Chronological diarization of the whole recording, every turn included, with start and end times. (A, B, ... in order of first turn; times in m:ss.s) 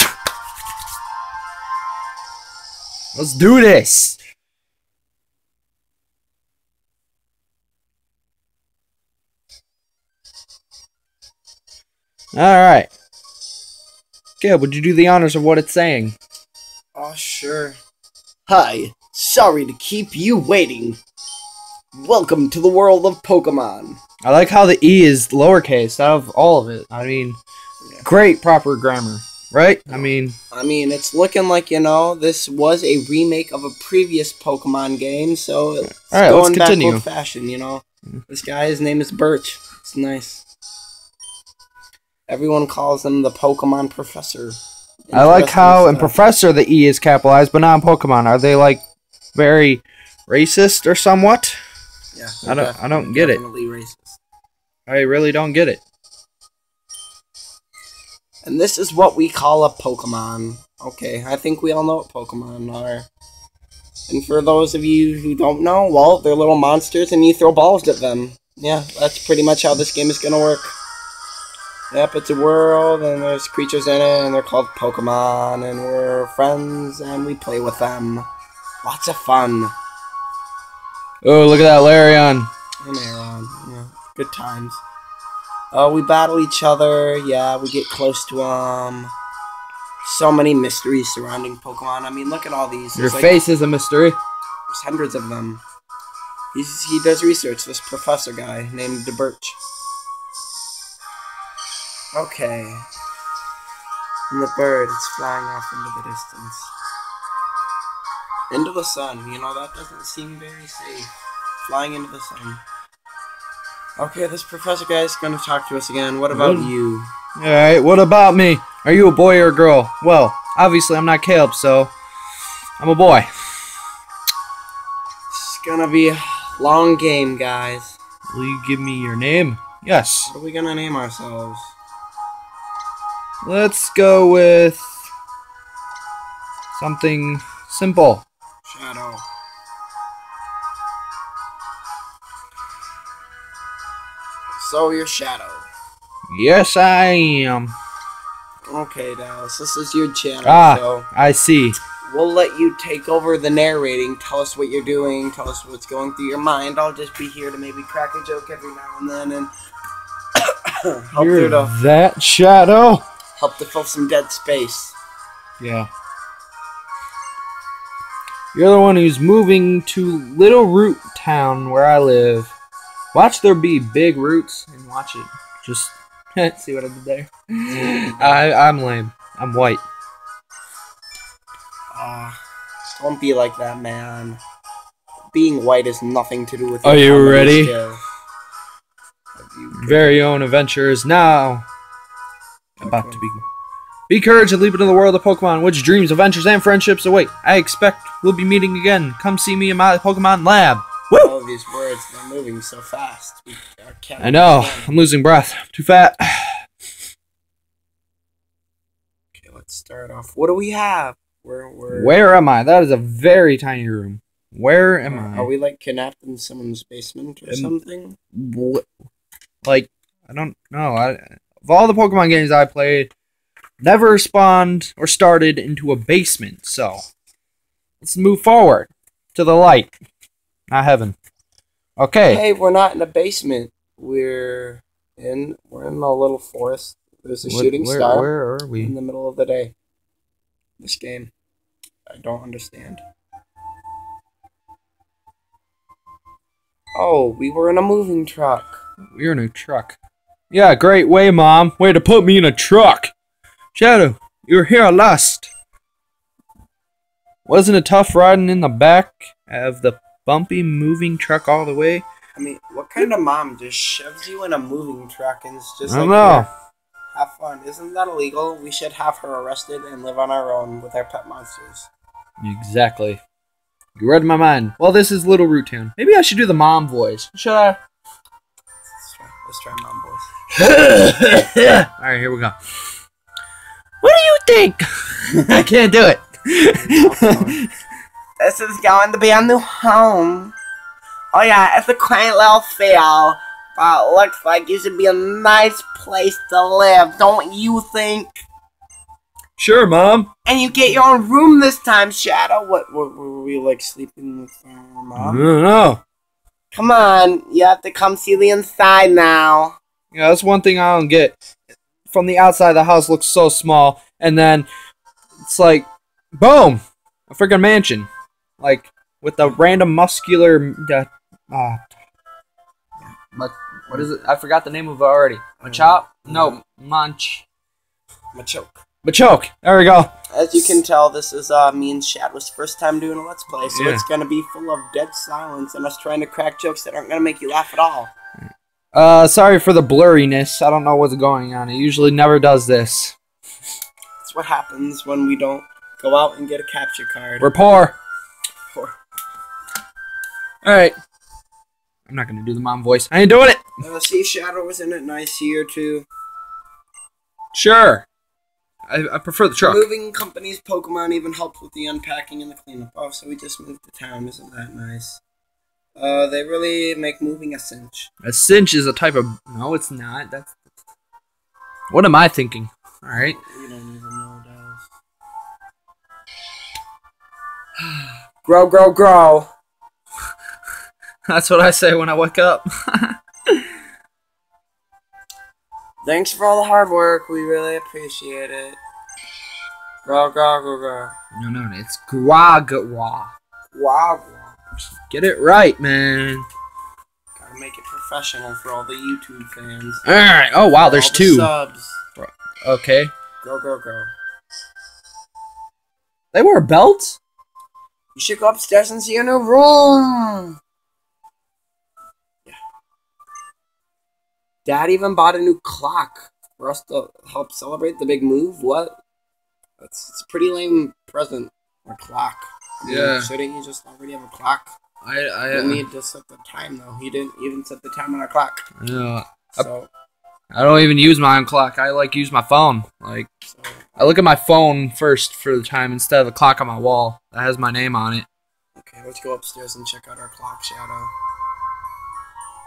0:03.1-0:04.2 A
0:12.3-0:12.9 A
0:14.4-0:16.2 A
0:17.0-0:17.8 B
0:18.5-0:21.0 B
0:21.9-0:24.0 B
0:24.2-0:27.4 A
0:28.0-0:30.4 A
0:29.9-0:40.4 B
0:36.0-0:37.0 A
0:42.3-0:46.2 B
0:45.1-0:48.8 A
0:49.4-0:51.6 A
0:52.1-0:54.2 B
0:52.4-0:53.4 A
0:54.9-0:55.8 A
0:58.4-1:03.1 B
1:04.1-1:10.8 B
1:11.9-1:18.3 B
1:18.8-1:19.8 B
1:21.2-1:22.5 A
1:22.8-1:24.8 B
1:25.7-1:29.1 B
1:30.0-1:33.4 B
1:33.0-1:34.2 A
1:34.7-1:35.6 B
1:36.5-1:39.6 B
1:42.1-1:42.9 B
1:44.3-1:46.7 B
1:48.5-1:52.6 B
1:54.0-1:57.1 B
1:56.3-1:56.7 A
1:57.4-2:01.9 A
2:02.8-2:03.3 A
2:05.3-2:08.0 B
2:08.3-2:10.3 A
2:10.3-2:11.7 B
2:13.4-2:15.0 A
2:16.7-2:18.2 A
2:18.6-2:19.2 B
2:24.6-2:25.7 B
2:26.3-2:27.8 A
2:28.7-2:31.1 B
2:30.4-2:31.8 A
2:32.0-2:39.5 B
2:40.4-2:41.8 B
2:41.2-2:43.0 A
2:43.4-2:45.0 B
2:45.6-2:45.9 A
2:48.5-2:52.6 A
2:53.1-2:59.8 A
2:57.7-2:58.4 B
3:01.9-3:02.4 B
3:03.0-3:04.4 B
3:05.3-3:08.0 B
3:06.8-3:07.7 A
3:09.4-3:10.2 B
3:09.7-3:11.7 A
3:12.8-3:13.3 B
3:12.8-3:13.4 A
3:14.1-3:21.3 A
3:21.1-3:24.9 B
3:24.2-3:26.6 A
3:29.3-3:32.2 B
3:31.9-3:35.5 A
3:35.1-3:38.2 B
3:38.3-3:38.9 A
3:39.6-3:43.1 A
3:43.8-3:47.0 A
3:48.0-3:50.0 A
3:50.7-3:51.2 A
3:52.0-3:52.4 A
3:52.3-3:59.7 B
3:57.4-3:58.9 A
4:00.8-4:01.3 B
4:02.1-4:03.0 B
4:07.0-4:08.8 B
4:09.1-4:10.0 A
4:10.5-4:13.1 A
4:13.8-4:15.5 A
4:17.5-4:22.1 A
4:22.4-4:26.5 B
4:25.9-4:26.5 A
4:27.1-4:31.9 B
4:32.4-4:33.2 A
4:34.0-4:37.8 A
4:38.9-4:40.3 B
4:40.5-4:42.6 A
4:44.0-4:47.7 A
4:46.7-4:47.6 B
4:48.4-4:50.6 B
4:51.3-4:58.4 B
4:59.6-5:00.3 A
5:00.5-5:05.5 B
5:05.2-5:06.0 A
5:06.7-5:09.8 B
5:10.1-5:11.4 A
5:12.1-5:14.7 A
5:15.4-5:21.8 A
5:23.3-5:27.5 A
5:25.6-5:26.6 B
5:28.3-5:28.8 B
5:29.0-5:30.1 A
5:30.3-5:38.1 B
5:33.7-5:34.0 A
5:38.9-5:43.2 A
5:44.2-5:47.5 B
5:47.4-5:48.0 A
5:50.6-5:51.0 A
5:52.1-5:53.6 A
5:53.8-5:56.1 B
5:57.5-5:58.1 A
5:58.9-5:59.9 A
5:59.6-6:05.2 B
6:06.0-6:08.1 B
6:08.2-6:10.6 A
6:11.9-6:13.4 A
6:13.1-6:14.9 B
6:18.0-6:19.5 B
6:21.3-6:23.6 A
6:26.0-6:28.8 B
6:30.0-6:31.1 B
6:31.3-6:33.3 A
6:33.7-6:34.6 B
6:35.1-6:36.5 A
6:37.4-6:40.0 B
6:40.0-6:41.5 A
6:40.8-6:42.0 B
6:42.2-6:43.1 A
6:43.4-6:44.1 B
6:46.3-6:47.2 A
6:48.2-6:50.6 B
6:54.6-6:59.0 B
6:59.8-7:04.7 B
7:02.9-7:03.3 A
7:05.0-7:05.8 A
7:05.5-7:08.6 B
7:08.8-7:09.7 A
7:09.6-7:09.9 B
7:10.5-7:13.3 A
7:13.5-7:14.0 B
7:14.0-7:18.3 A
7:18.8-7:21.1 B